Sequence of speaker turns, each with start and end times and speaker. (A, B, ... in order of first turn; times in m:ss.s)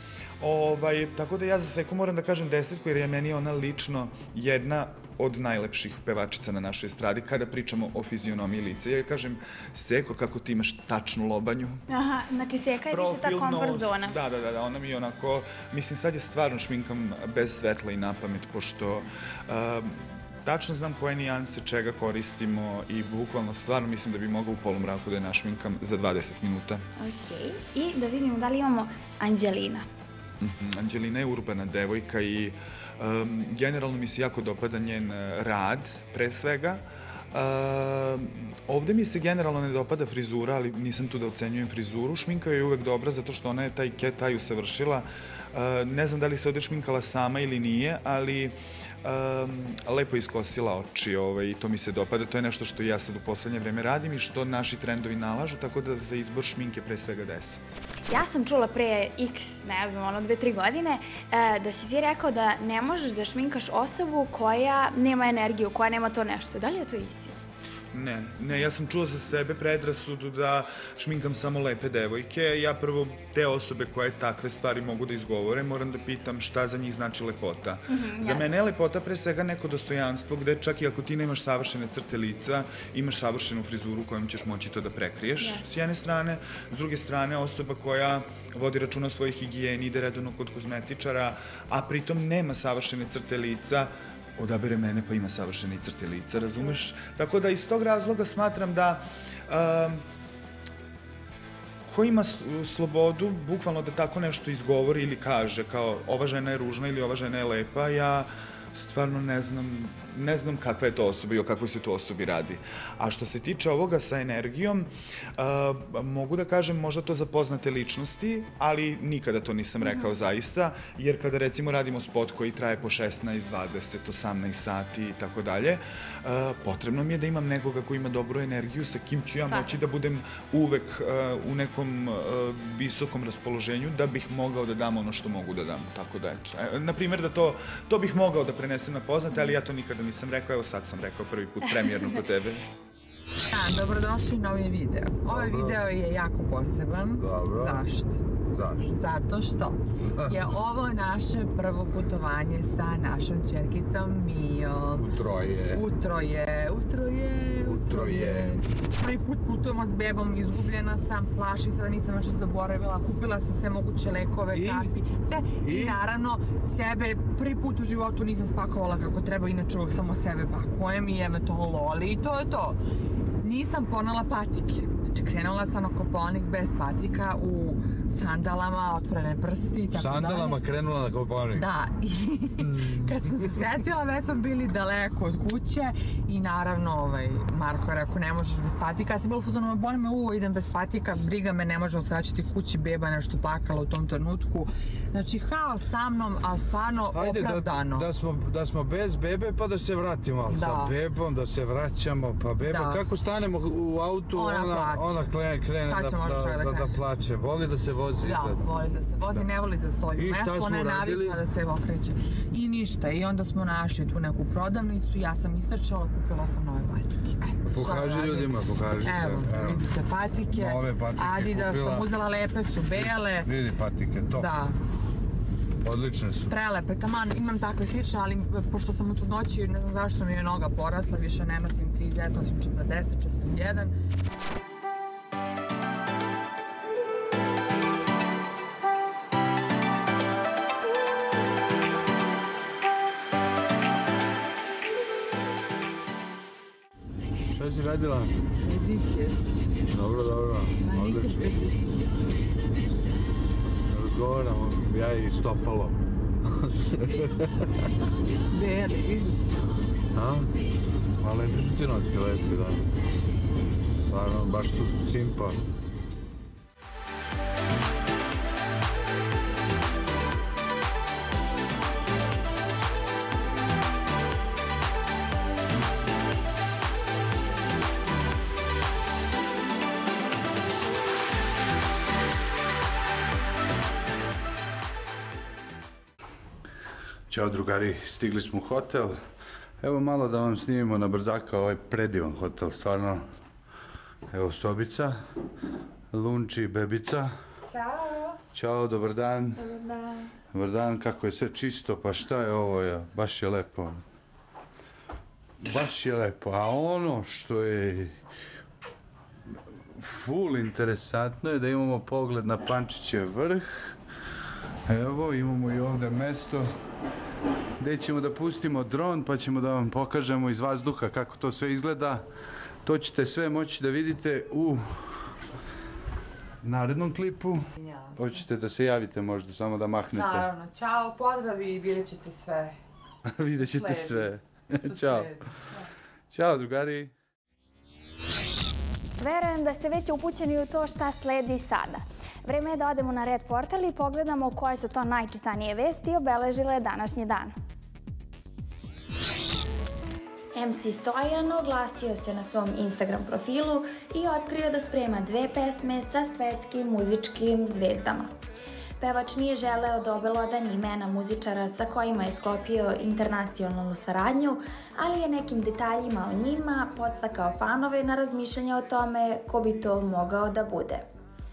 0:00.4-0:11.8 A
0:11.9-0:14.1 B
0:12.9-0:26.8 A
0:27.0-0:29.8 B
0:30.4-0:36.8 A
0:37.3-0:57.6 A
0:58.1-1:07.4 B
1:07.9-1:40.0 A
1:17.9-1:18.4 B
1:25.4-1:25.6 B
1:41.9-2:22.7 A
1:59.8-2:00.1 B
2:09.4-2:09.7 B
2:23.5-2:28.2 C
2:25.3-2:25.8 D
2:27.2-2:27.8 D
2:28.5-2:28.9 D
2:28.9-2:35.1 C
2:30.0-2:30.4 D
2:35.0-2:35.8 D
2:35.7-2:52.8 C
2:37.6-2:38.6 D
2:44.5-2:44.9 D
2:45.6-2:46.0 D
2:53.4-3:00.6 C
2:59.9-3:01.7 D
3:01.5-3:18.1 C
3:02.6-3:03.2 D
3:17.1-3:28.6 D
3:20.5-3:20.9 C
3:22.6-3:23.0 C
3:24.3-3:25.3 C
3:25.8-3:27.0 C
3:28.2-3:43.5 C
3:30.2-3:31.4 D
3:37.6-3:39.8 D
3:40.5-3:42.1 D
3:43.0-3:44.5 D
3:44.3-3:44.7 C
3:45.8-3:46.5 D
3:46.5-3:53.9 C
4:07.5-4:08.4 D
4:08.6-4:09.4 C
4:09.9-4:11.4 D
4:10.8-4:11.8 C
4:13.9-4:17.7 D
4:18.5-4:19.4 C
4:20.1-4:20.5 D
4:21.2-4:22.9 D
4:24.1-4:25.6 D
4:47.3-4:49.2 D
4:49.8-4:53.2 D
4:54.3-4:55.2 D
4:56.1-4:57.3 D
4:57.7-4:58.4 C
4:58.5-4:59.8 D
5:00.5-5:04.0 D
5:05.6-5:08.2 D
5:09.9-5:13.9 D
5:14.8-5:16.7 D
5:17.8-5:22.2 D
5:22.8-5:25.4 D
5:26.6-5:30.4 D
5:27.8-5:28.4 C
5:30.1-5:32.8 C
5:33.2-5:35.3 D
5:33.6-5:34.3 C
5:34.8-5:35.9 C
5:36.3-5:37.1 D
5:39.2-5:47.5 B
5:50.5-5:58.3 B
5:59.0-6:11.0 B